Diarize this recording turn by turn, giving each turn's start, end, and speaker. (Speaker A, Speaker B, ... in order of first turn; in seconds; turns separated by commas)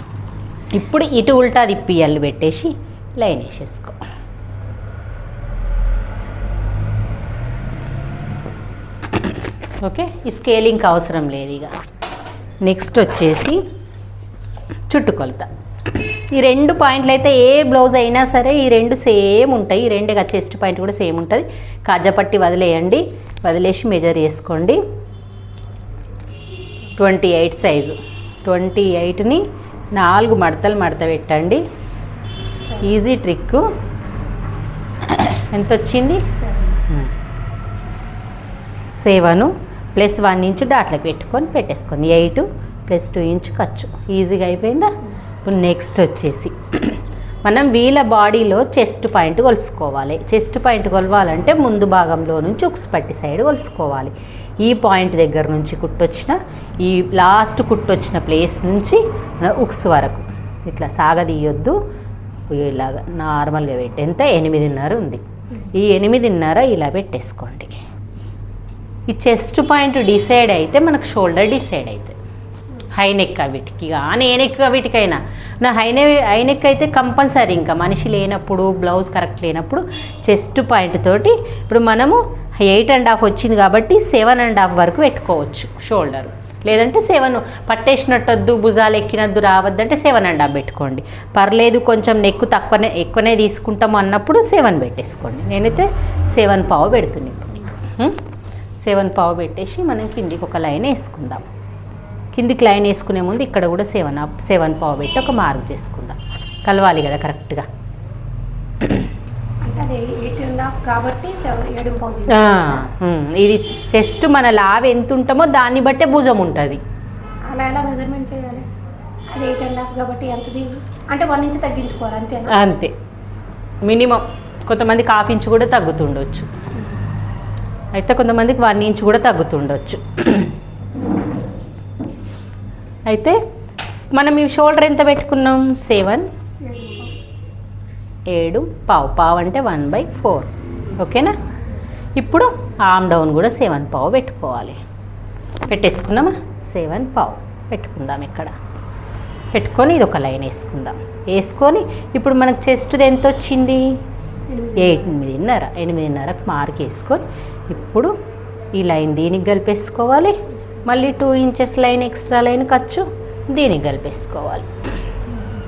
Speaker A: 0.8-4.0, Speaker A: 9.1-11.7, Speaker A: 12.7-13.6, Speaker A: 14.9-24.8, Speaker A: 27.0-31.6, Speaker A: 32.8-33.6, Speaker A: 35.0-36.2, Speaker B: 36.4-36.8, Speaker A: 37.9-61.8, Speaker A: 62.5-67.7, Speaker A: 69.1-72.2, Speaker A: 72.9-98.2, Speaker A: 98.8-101.5, Speaker A: 102.3-107.7, Speaker B: 109.6-112.8, Speaker A: 112.3-116.8, Speaker B: 117.5-118.7, Speaker B: 119.3-122.6, Speaker A: 122.5-122.9, Speaker A: 123.9-126.5, Speaker A: 128.0-130.5, Speaker A: 133.1-133.4, Speaker A: 134.1-136.3, Speaker B: 136.6-137.1, Speaker A: 138.3-141.3, Speaker A: 142.2-144.8, Speaker A: 145.7-148.5, Speaker A: 149.5-153.8, Speaker B: 154.5-155.1, Speaker A: 154.8-158.1, Speaker A: 158.8-164.7